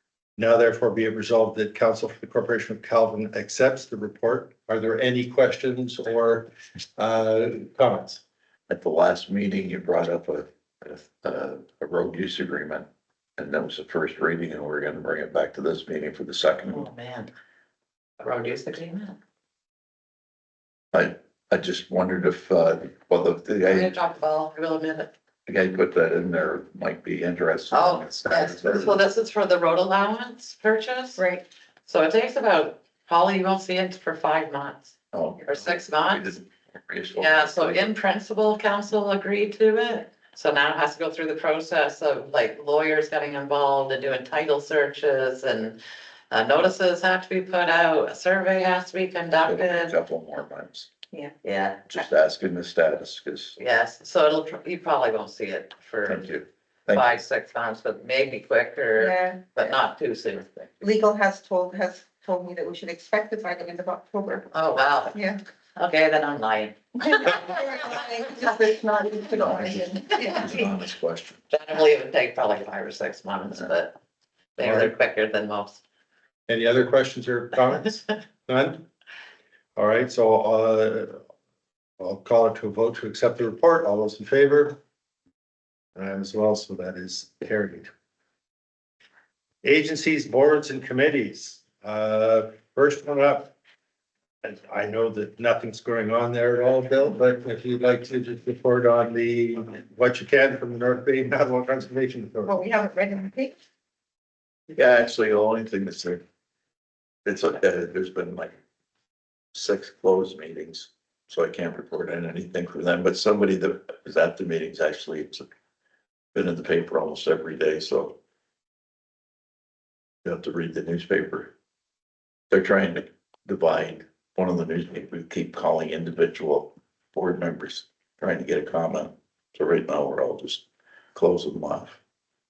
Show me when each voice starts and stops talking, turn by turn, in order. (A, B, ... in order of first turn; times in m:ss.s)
0:00.4-0:08.2 A
0:08.7-0:16.9 B
0:16.7-0:17.3 C
0:18.2-0:19.2 C
0:20.9-0:23.9 B
0:23.6-0:25.1 C
0:25.5-0:29.0 B
0:27.7-0:31.2 C
0:31.2-0:31.4 D
0:31.9-0:34.9 C
0:35.1-0:37.9 B
0:35.5-0:36.4 C
0:37.2-0:45.8 C
0:46.3-0:50.0 C
0:49.5-0:50.9 B
0:51.4-0:51.9 C
0:51.9-0:53.6 B
0:53.6-0:56.3 C
0:56.1-0:57.2 B
0:56.9-1:00.7 C
0:59.0-0:59.8 D
1:00.8-1:04.5 D
1:04.5-1:05.2 C
1:05.1-1:05.4 D
1:05.8-1:07.6 C
1:07.0-1:10.6 D
1:09.4-1:10.6 C
1:10.4-1:11.4 B
1:11.5-1:14.0 C
1:14.6-1:15.8 C
1:14.6-1:14.9 A
1:16.5-1:18.9 A
1:19.8-1:21.2 A
1:22.0-1:24.8 A
1:26.0-1:27.9 A
1:29.6-1:33.6 A
1:34.4-1:42.6 A
1:42.5-1:43.6 D
1:44.7-1:46.2 B
1:47.2-1:48.5 B
1:49.5-1:55.5 B
1:56.3-1:58.2 B
2:00.2-2:01.5 B
2:02.5-2:12.0 B